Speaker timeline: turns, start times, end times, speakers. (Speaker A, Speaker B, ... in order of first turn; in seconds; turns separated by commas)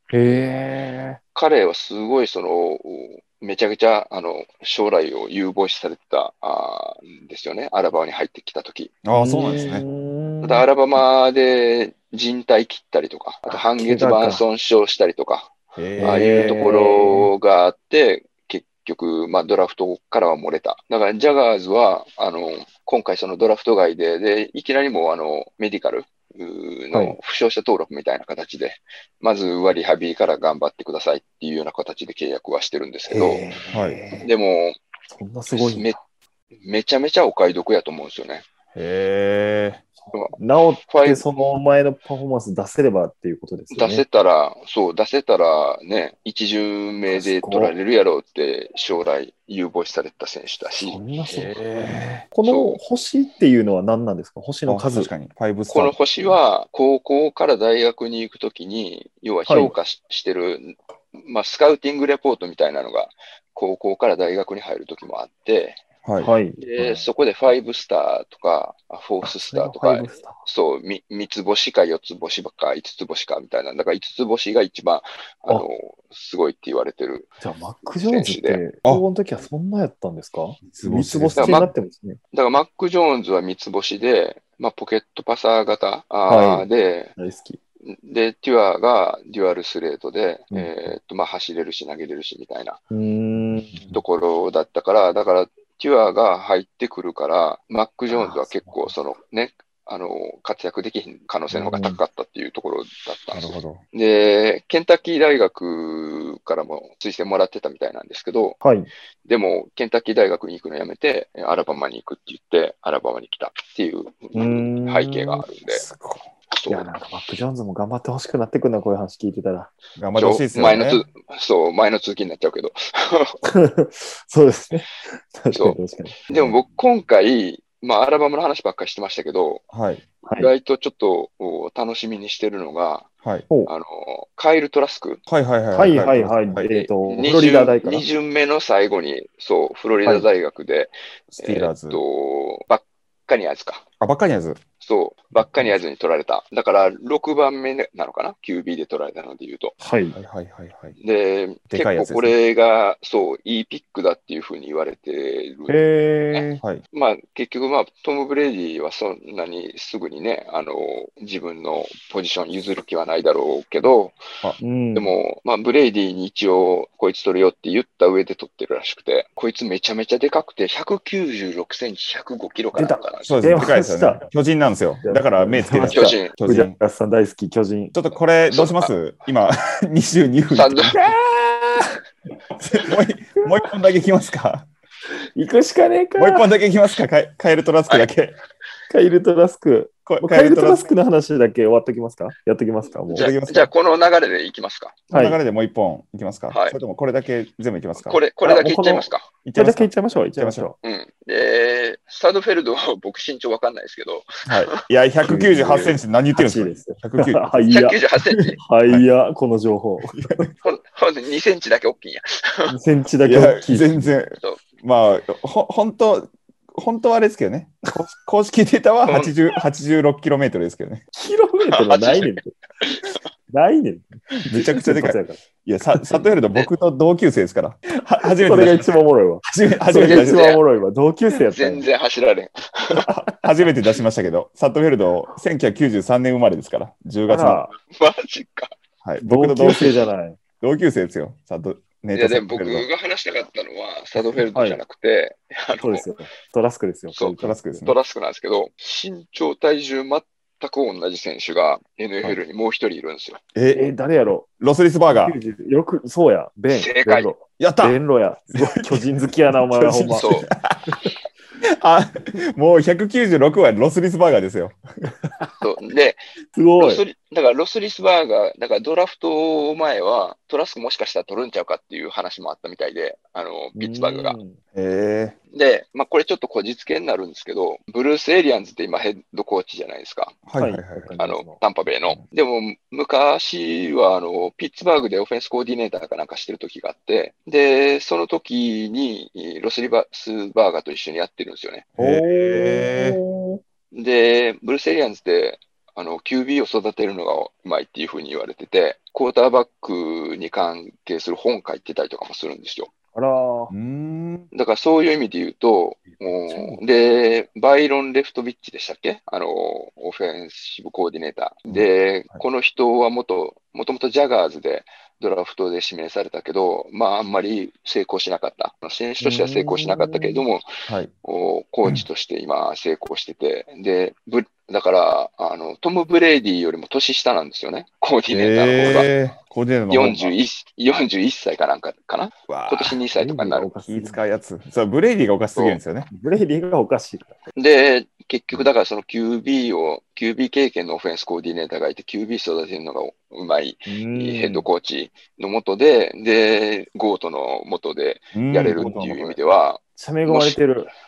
Speaker A: 0.1-1.2, Speaker B: 1.4-8.9, Speaker C: 9.0-9.8, Speaker A: 9.1-10.7, Speaker B: 10.4-33.5, Speaker A: 13.5-14.4, Speaker C: 15.8-16.5, Speaker A: 16.0-17.3, Speaker A: 26.9-27.2, Speaker A: 33.1-34.3, Speaker C: 33.7-34.0, Speaker B: 34.2-34.8, Speaker A: 35.1-36.0, Speaker B: 35.5-36.0, Speaker B: 36.6-38.5, Speaker C: 38.8-39.8, Speaker A: 40.0-44.0, Speaker B: 40.9-41.2, Speaker B: 43.7-51.0, Speaker A: 47.1-47.7, Speaker A: 50.7-55.1, Speaker C: 51.3-52.2, Speaker B: 52.4-52.8, Speaker C: 54.7-56.0, Speaker B: 55.7-65.8, Speaker A: 59.5-59.8, Speaker C: 66.0-66.3, Speaker A: 66.2-67.0, Speaker B: 66.6-77.3, Speaker A: 69.2-70.5, Speaker A: 77.4-82.2, Speaker B: 78.1-78.6, Speaker C: 80.7-81.7, Speaker B: 81.4-81.7, Speaker B: 82.3-87.1, Speaker A: 86.3-87.6, Speaker B: 87.9-92.8, Speaker A: 90.5-90.9, Speaker A: 92.9-93.9, Speaker B: 93.9-108.6, Speaker A: 98.1-98.9, Speaker A: 101.5-102.0, Speaker C: 103.3-103.8, Speaker A: 108.6-108.9, Speaker B: 109.2-115.8, Speaker A: 114.3-115.5, Speaker C: 115.7-116.3, Speaker B: 116.5-116.9, Speaker A: 116.7-119.7, Speaker C: 120.0-121.0, Speaker B: 120.2-123.4, Speaker A: 123.4-126.2, Speaker B: 125.5-129.6, Speaker C: 126.3-126.6, Speaker C: 129.7-130.1, Speaker A: 130.2-130.5, Speaker B: 130.4-133.1, Speaker B: 133.7-135.2, Speaker C: 135.3-136.7, Speaker A: 135.7-138.1, Speaker B: 136.7-143.8, Speaker C: 141.3-142.0, Speaker C: 144.0-144.6, Speaker B: 144.8-149.7, Speaker A: 149.8-150.2, Speaker C: 150.1-151.0, Speaker B: 151.0-155.8, Speaker C: 151.7-152.3, Speaker A: 155.7-156.6, Speaker B: 156.3-164.2, Speaker A: 164.6-165.1, Speaker B: 164.9-173.4, Speaker A: 172.7-174.2, Speaker C: 173.2-176.8, Speaker A: 175.0-177.9, Speaker B: 175.9-176.3, Speaker C: 177.9-181.1, Speaker B: 178.5-178.9, Speaker B: 180.5-181.0, Speaker A: 181.0-182.0, Speaker C: 182.6-184.7, Speaker A: 185.4-186.5, Speaker C: 186.2-188.4, Speaker A: 188.9-193.3, Speaker C: 190.1-190.9, Speaker B: 193.1-195.0, Speaker C: 193.1-193.7, Speaker A: 195.1-195.4, Speaker C: 195.1-198.2, Speaker B: 196.5-196.8, Speaker B: 198.0-199.3, Speaker A: 198.4-200.8, Speaker C: 199.4-200.7, Speaker B: 200.8-204.4, Speaker C: 204.5-207.8, Speaker A: 205.2-208.0, Speaker B: 207.7-208.6, Speaker C: 208.4-209.1, Speaker A: 208.6-210.5, Speaker C: 210.2-210.5, Speaker B: 210.6-212.7, Speaker A: 212.7-214.1, Speaker C: 213.2-221.1, Speaker B: 219.1-219.3, Speaker A: 221.1-222.6, Speaker B: 221.7-223.2, Speaker A: 223.5-225.4, Speaker C: 224.5-228.9, Speaker A: 226.0-226.3, Speaker A: 228.4-231.9, Speaker C: 229.5-230.5, Speaker B: 230.0-230.6, Speaker B: 231.3-233.1, Speaker C: 233.1-237.6, Speaker A: 237.3-237.7, Speaker B: 237.9-238.7, Speaker C: 239.0-239.9, Speaker A: 239.2-240.4, Speaker C: 240.6-242.9, Speaker B: 242.1-246.1, Speaker A: 244.5-244.8, Speaker A: 245.8-247.9, Speaker B: 247.1-253.4, Speaker C: 247.4-247.9, Speaker C: 253.6-253.9, Speaker A: 253.7-254.5, Speaker C: 254.6-255.4, Speaker A: 255.1-260.3, Speaker B: 256.7-257.3, Speaker C: 257.6-258.0, Speaker C: 258.6-260.9, Speaker B: 260.1-260.5, Speaker C: 261.6-264.8, Speaker B: 265.6-266.2, Speaker A: 266.5-267.1, Speaker B: 266.8-274.4, Speaker A: 273.8-274.6, Speaker C: 274.8-275.4, Speaker B: 275.5-280.4, Speaker C: 280.5-281.1, Speaker A: 280.6-281.6, Speaker B: 281.2-291.9, Speaker C: 292.0-293.2, Speaker A: 292.0-293.6, Speaker B: 293.9-302.9, Speaker A: 303.1-303.7, Speaker C: 303.7-304.5, Speaker B: 304.5-320.7, Speaker C: 311.7-312.4, Speaker A: 319.2-320.5, Speaker B: 321.2-329.1, Speaker C: 328.3-330.4, Speaker B: 329.9-333.7, Speaker C: 332.5-333.0, Speaker A: 333.1-334.2, Speaker C: 333.9-336.1, Speaker A: 336.1-337.4, Speaker B: 337.6-350.7, Speaker A: 343.9-344.7, Speaker C: 348.3-349.4, Speaker A: 350.0-350.9